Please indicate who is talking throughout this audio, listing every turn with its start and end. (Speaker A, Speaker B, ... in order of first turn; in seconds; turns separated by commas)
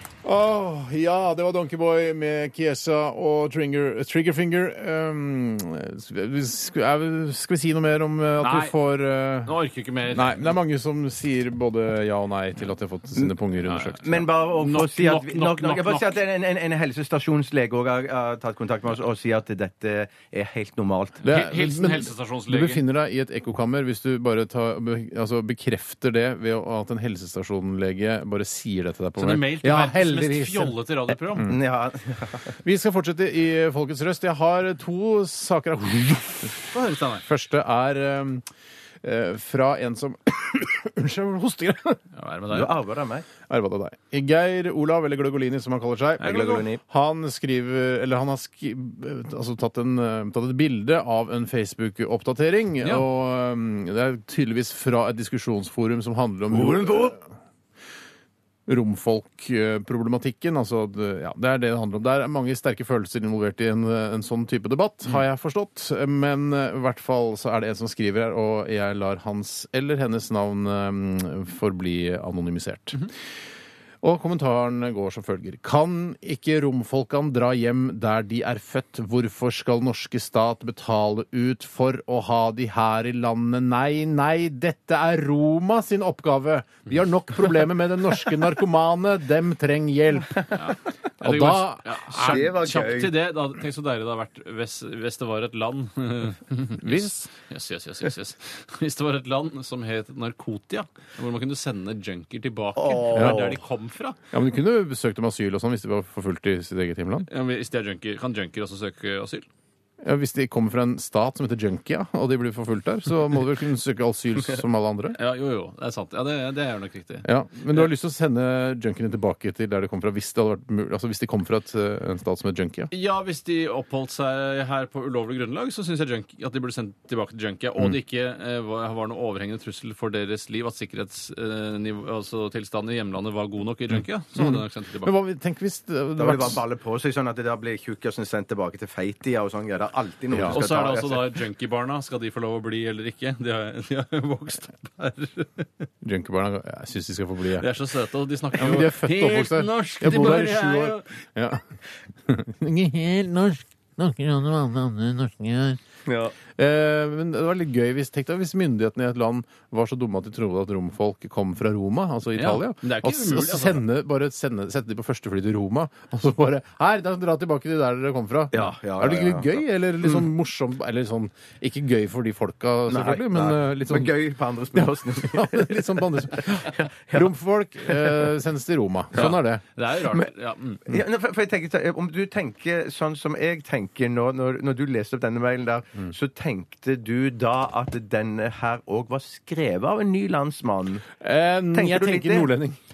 Speaker A: 0.2-14.2, Speaker B: 8.4-8.8, Speaker B: 9.4-10.5, Speaker B: 13.7-16.2, Speaker C: 14.0-21.2, Speaker B: 21.2-22.8, Speaker A: 21.2-30.7, Speaker B: 29.2-31.5, Speaker A: 31.3-31.6, Speaker C: 31.4-32.5, Speaker A: 32.6-36.6, Speaker B: 36.7-37.2, Speaker A: 37.2-38.5, Speaker A: 39.0-42.0, Speaker B: 42.1-42.7, Speaker C: 42.5-43.2, Speaker A: 43.5-57.2, Speaker B: 46.2-46.6, Speaker C: 46.2-46.8, Speaker C: 56.5-57.1, Speaker A: 58.7-73.1, Speaker A: 74.0-90.4, Speaker B: 90.5-104.2, Speaker A: 91.2-92.5, Speaker C: 92.2-93.1, Speaker A: 96.8-97.2, Speaker C: 102.8-103.6, Speaker A: 103.1-103.5, Speaker A: 104.3-107.3, Speaker B: 107.3-109.5, Speaker A: 110.0-115.2, Speaker B: 115.1-117.9, Speaker A: 117.2-122.9, Speaker B: 122.9-135.1, Speaker A: 134.3-136.6, Speaker C: 136.2-141.4, Speaker A: 140.3-140.6, Speaker B: 140.5-145.8, Speaker A: 146.0-147.7, Speaker B: 147.6-151.2, Speaker A: 148.6-151.7, Speaker A: 152.2-155.8, Speaker C: 156.1-156.3, Speaker A: 156.5-174.2, Speaker B: 162.3-163.8, Speaker C: 168.5-170.2, Speaker C: 172.9-177.3, Speaker A: 174.7-179.6, Speaker C: 177.8-178.3, Speaker B: 179.2-180.8, Speaker C: 180.8-191.1, Speaker A: 191.2-192.8, Speaker C: 191.7-192.5